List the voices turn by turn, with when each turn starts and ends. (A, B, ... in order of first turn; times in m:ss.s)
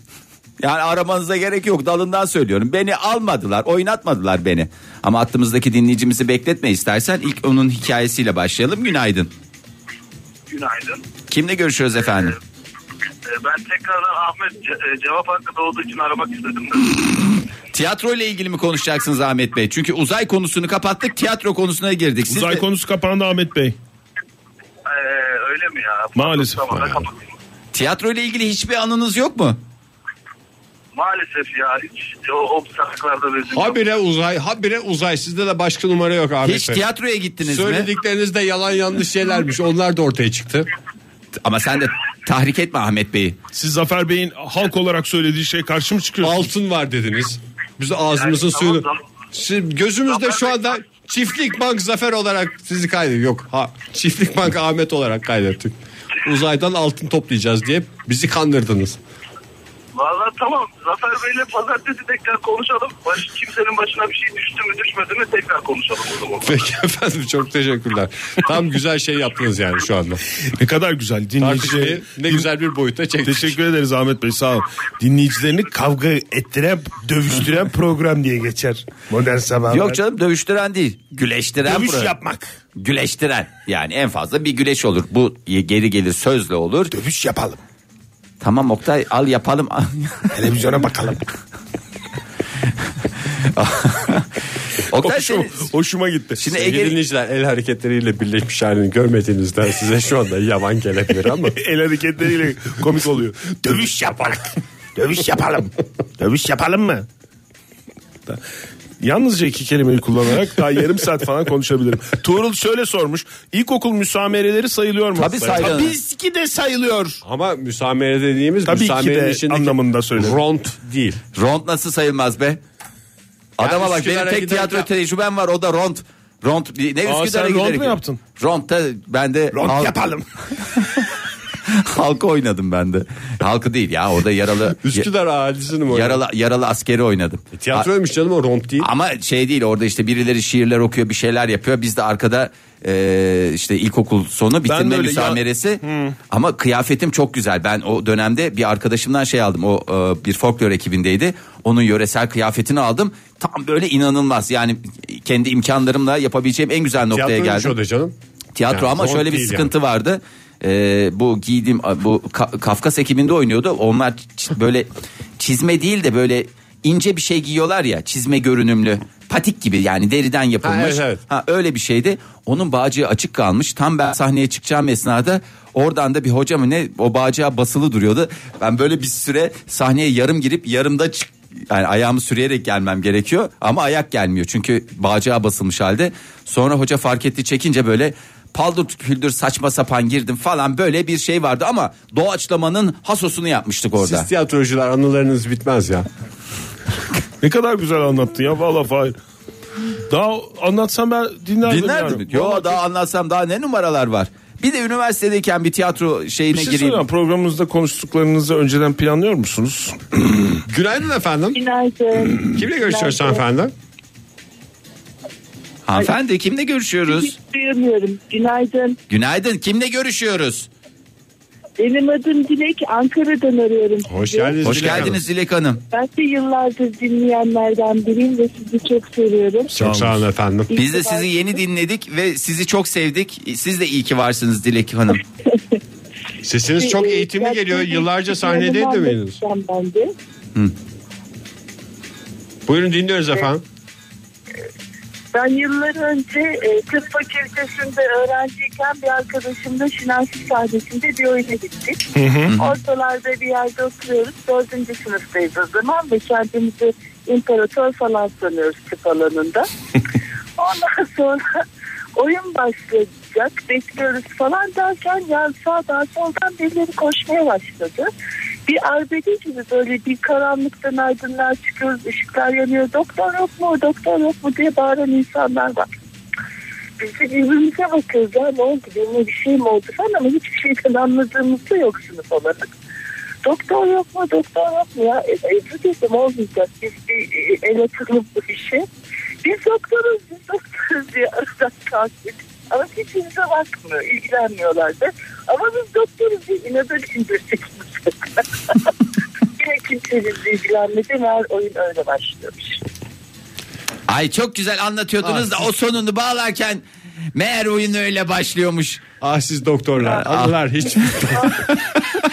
0:00.6-0:09.3 A
0:10.5-0:11.1 B
0:11.3-0:12.4 A
0:13.2-0:17.1 B
0:17.7-0:22.6 A
0:22.3-0:23.8 C
0:24.8-0:27.4 B
0:26.2-0:27.0 C
0:27.7-0:29.6 A
0:30.9-0:33.8 B
0:33.5-0:36.8 D
0:36.4-0:37.9 A
0:37.4-0:40.7 D
0:41.4-0:43.4 A
0:43.5-0:46.5 C
0:46.2-0:59.0 D
0:48.2-0:49.0 B
0:50.1-0:50.8 B
0:59.9-1:06.6 B
1:06.4-1:10.2 D
1:10.4-1:12.5 C
1:11.4-1:13.6 D
1:13.2-1:20.0 C
1:19.7-1:22.1 A
1:21.6-1:22.5 C
1:22.8-1:26.9 A
1:26.9-1:27.6 C
1:28.4-1:30.4 A
1:30.3-1:31.3 C
1:33.4-1:34.3 A
1:34.8-1:35.7 A
1:35.0-1:36.4 C
1:36.4-1:37.0 A
1:36.5-1:41.6 D
1:41.6-1:47.1 C
1:49.0-1:57.2 C
1:55.2-1:56.0 A
1:57.2-2:01.2 D
1:58.7-2:00.4 C
2:01.4-2:02.6 A
2:03.6-2:10.0 A
2:03.6-2:04.9 D
2:07.1-2:08.2 C
2:09.5-2:10.3 C
2:11.7-2:15.1 A
2:14.8-2:16.2 D
2:15.9-2:17.9 A
2:17.5-2:18.9 D
2:18.8-2:37.8 A
2:24.7-2:26.2 C
2:37.1-2:38.2 D
2:38.6-2:44.9 A
2:38.7-2:39.7 D
2:45.4-3:14.3 A
2:50.6-2:51.2 D
3:14.0-3:16.1 D
3:17.4-3:19.2 C
3:20.1-3:22.8 C
3:21.7-3:27.0 A
3:26.5-3:30.6 C
3:30.7-3:31.6 D
3:31.5-3:33.5 E
3:32.5-3:33.7 D
3:35.8-3:37.3 A
3:37.1-3:39.0 E
3:39.1-3:40.7 A
3:41.8-3:44.6 E
3:44.1-3:45.2 D
3:44.6-3:45.8 A
3:45.9-3:49.8 E
3:49.7-3:50.7 D
3:49.8-3:50.2 C
3:50.7-3:51.6 E
3:50.8-3:55.2 A
3:55.5-3:55.8 E
3:56.4-3:59.4 D
3:56.7-4:00.1 E
4:02.7-4:03.6 D
4:05.3-4:12.0 E
4:12.2-4:12.5 C
4:12.6-4:19.7 E
4:20.6-4:21.6 E
4:22.2-4:28.1 E
4:28.7-4:35.9 E
4:37.0-4:42.7 E
4:43.4-4:48.9 E
4:49.4-4:58.9 E
4:59.6-5:02.8 E
5:04.1-5:06.8 A
5:05.2-5:05.6 D
5:07.4-5:09.0 A
5:09.2-5:11.9 D
5:10.1-5:10.5 A